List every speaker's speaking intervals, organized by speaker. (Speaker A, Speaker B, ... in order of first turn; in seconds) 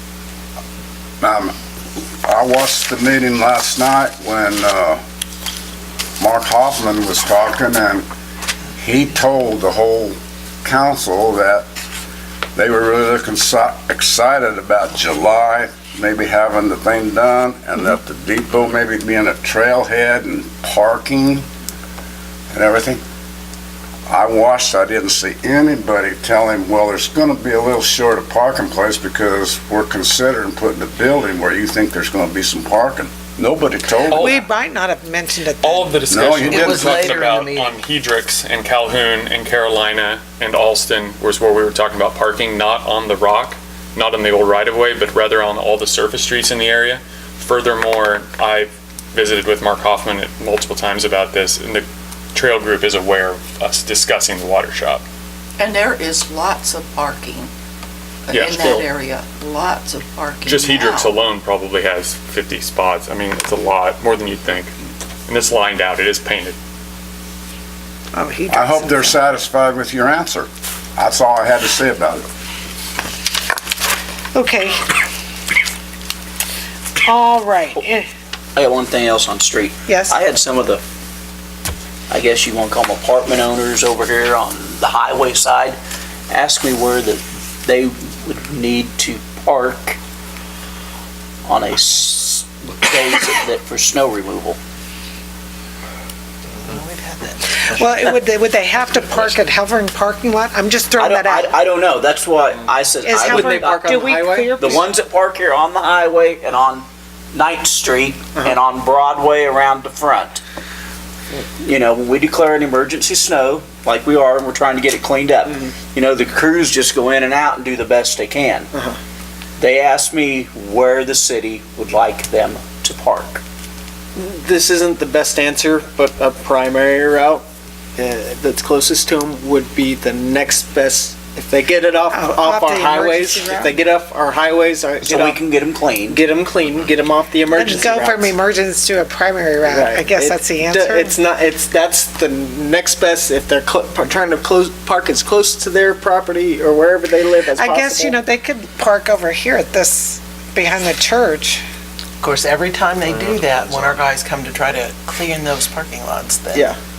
Speaker A: 1.2-1.5, 2.2-5.0, 6.2-8.1, 8.8-11.7, 12.6-21.4, 22.5-23.0, 24.1-34.4, 36.1-37.1, 68.5-72.3
Speaker B: 34.1-34.5, 35.6-55.0, 58.3-58.9, 60.4-64.7, 65.3-66.5
Speaker C: 34.1-35.9, 68.1-69.2, 74.3-74.9, 77.0-78.1, 79.9-80.2, 97.6-101.5, 103.0-104.8, 132.1-133.7, 137.5-141.2, 147.6-151.6
Speaker D: 36.5-37.7, 55.6-57.5, 58.3-61.1
Speaker E: 78.6-80.8, 82.1-85.8, 86.3-90.0, 91.5-94.6, 101.0-104.0, 104.5-110.4, 111.6-118.7, 119.6-123.4, 135.0-136.2
Speaker F: 96.6-97.8, 152.2-156.7
Speaker G: 103.2-104.8, 124.2-127.5, 128.0-135.4, 136.1-138.3, 139.7-148.2, 156.5-156.8